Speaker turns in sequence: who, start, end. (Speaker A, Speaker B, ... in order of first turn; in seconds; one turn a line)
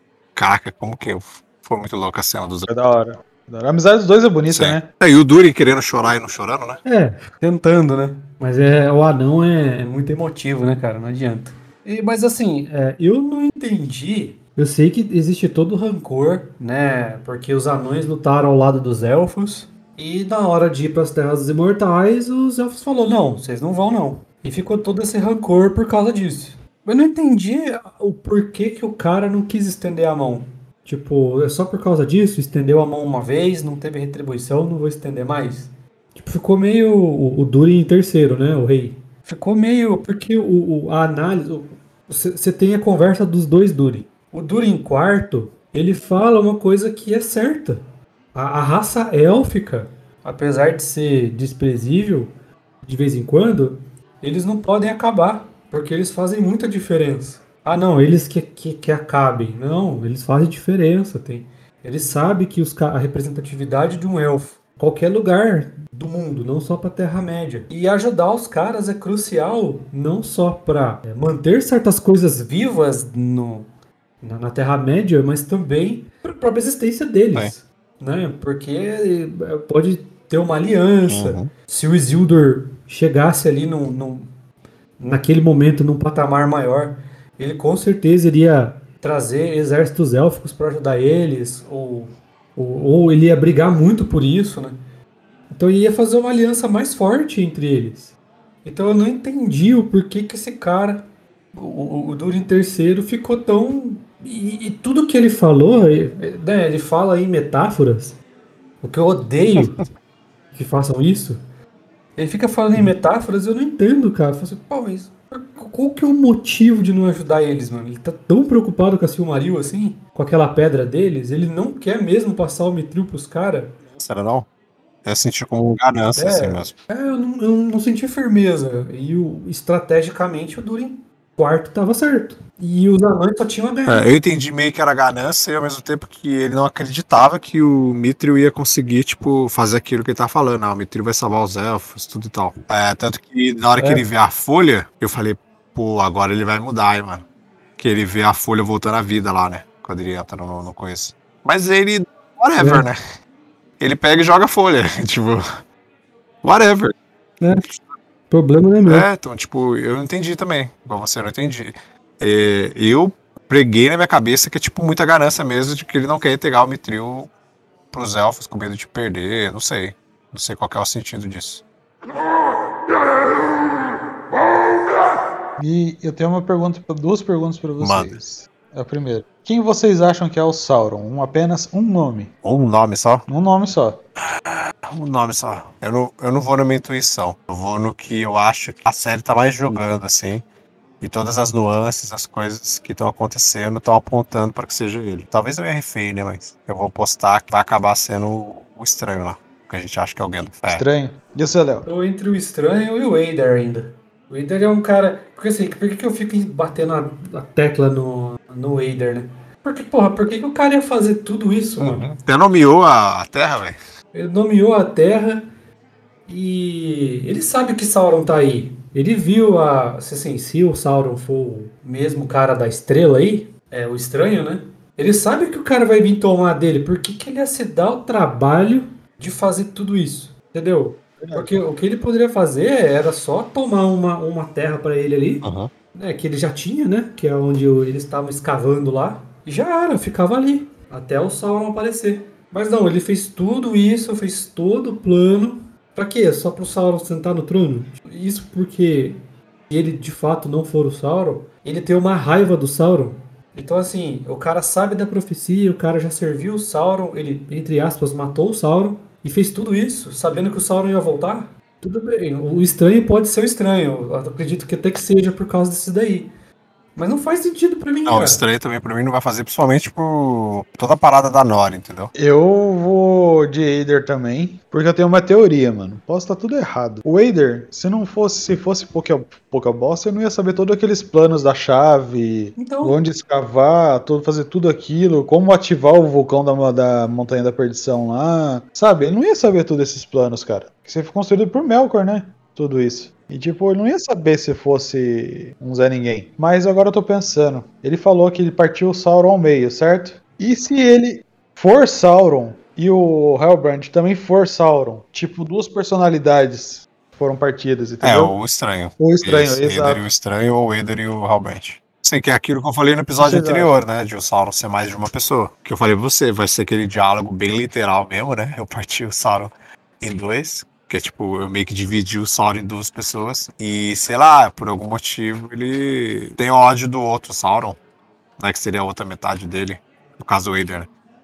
Speaker A: 0.3-2.7
Speaker B: 2.7-4.8
Speaker A: 4.5-6.8
Speaker C: 6.8-52.3
Speaker C: 52.8-73.7
Speaker C: 74.2-84.3
Speaker A: 81.1-81.5
Speaker C: 85.0-94.8
Speaker C: 95.5-108.2
Speaker C: 108.8-109.8
Speaker C: 110.5-111.4
Speaker C: 112.2-123.8
Speaker A: 123.9-124.5
Speaker A: 125.0-126.7
Speaker C: 126.2-134.1
Speaker A: 133.9-147.2
Speaker C: 143.8-144.0
Speaker A: 147.8-153.0
Speaker C: 152.6-152.9
Speaker A: 153.8-155.4
Speaker A: 156.4-156.9
Speaker C: 158.3-159.1
Speaker A: 158.8-167.3
Speaker A: 167.9-171.6
Speaker B: 175.6-182.3
Speaker A: 177.8-178.2
Speaker A: 182.4-183.3
Speaker B: 183.3-184.0
Speaker A: 184.9-190.4
Speaker A: 191.0-200.8
Speaker B: 200.7-201.9
Speaker C: 201.8-212.1
Speaker A: 211.8-213.8
Speaker C: 214.1-215.5
Speaker C: 216.3-266.3
Speaker B: 231.2-231.6
Speaker A: 235.4-235.7
Speaker C: 266.9-268.4
Speaker A: 268.1-272.1
Speaker B: 272.1-308.3
Speaker C: 282.6-283.0
Speaker A: 308.0-327.8
Speaker B: 309.0-310.1
Speaker B: 313.2-313.7
Speaker A: 328.4-330.9